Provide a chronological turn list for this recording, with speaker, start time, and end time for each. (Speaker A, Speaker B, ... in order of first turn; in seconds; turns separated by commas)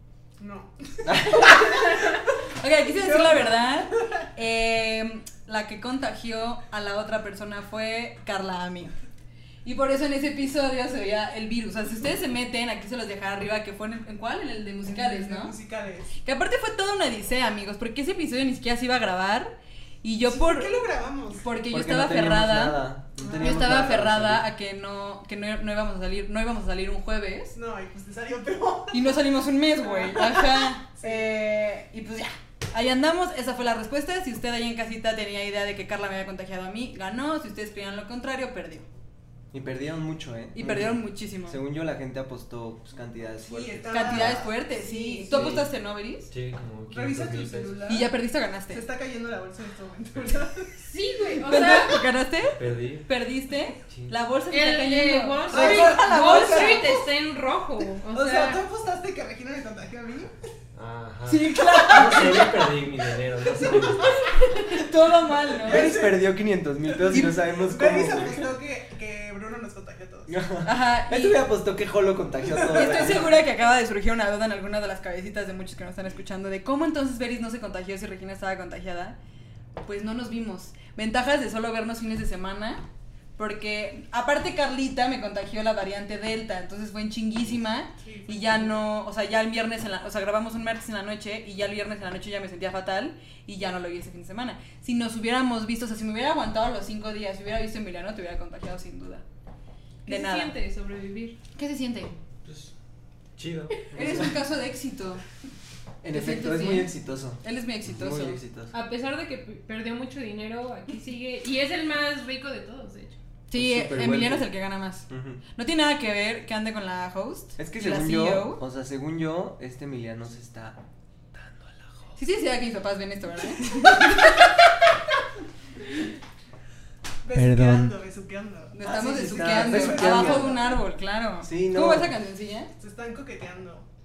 Speaker A: 0.4-2.2, Speaker B: 1.1-1.6, Speaker C: 1.4-8.9, Speaker A: 2.9-4.1, Speaker C: 9.7-15.6, Speaker A: 14.8-16.1, Speaker C: 16.2-20.8, Speaker A: 20.3-21.4, Speaker C: 21.4-27.6, Speaker B: 21.7-24.5, Speaker A: 23.2-23.9, Speaker A: 27.5-29.3, Speaker C: 28.9-38.9, Speaker A: 29.8-31.3, Speaker B: 39.5-44.4, Speaker C: 40.5-41.6, Speaker A: 43.5-45.6, Speaker C: 43.9-46.3, Speaker B: 45.3-45.6, Speaker D: 46.3-47.8, Speaker A: 46.9-48.1, Speaker C: 47.9-48.8, Speaker A: 48.7-50.8, Speaker E: 50.8-52.1, Speaker C: 51.5-57.1, Speaker D: 52.5-53.1, Speaker D: 53.9-54.1, Speaker E: 54.5-58.6, Speaker A: 55.5-56.9, Speaker A: 58.1-60.3, Speaker D: 60.8-64.3, Speaker C: 61.3-62.5, Speaker A: 63.5-64.8, Speaker C: 64.6-65.9, Speaker A: 65.5-66.3, Speaker B: 65.7-68.5, Speaker A: 66.9-70.4, Speaker B: 70.3-73.3, Speaker C: 70.6-71.4, Speaker A: 72.6-73.3, Speaker C: 72.7-79.2, Speaker C: 79.8-82.8, Speaker C: 83.4-99.2, Speaker A: 88.0-88.8, Speaker E: 100.0-101.4, Speaker C: 100.1-100.5, Speaker C: 101.6-102.1, Speaker D: 102.5-102.7, Speaker D: 103.4-104.3, Speaker C: 103.9-105.2, Speaker B: 106.0-108.7, Speaker C: 106.1-106.9, Speaker C: 107.4-108.4, Speaker E: 108.7-113.2, Speaker C: 113.5-118.6, Speaker B: 113.5-114.5, Speaker B: 115.1-115.4, Speaker B: 117.6-120.8, Speaker B: 121.3-121.9, Speaker C: 122.2-124.5, Speaker A: 127.2-130.8, Speaker B: 127.3-128.0, Speaker C: 128.7-132.7, Speaker B: 128.8-130.6, Speaker B: 131.4-132.1, Speaker A: 132.8-133.8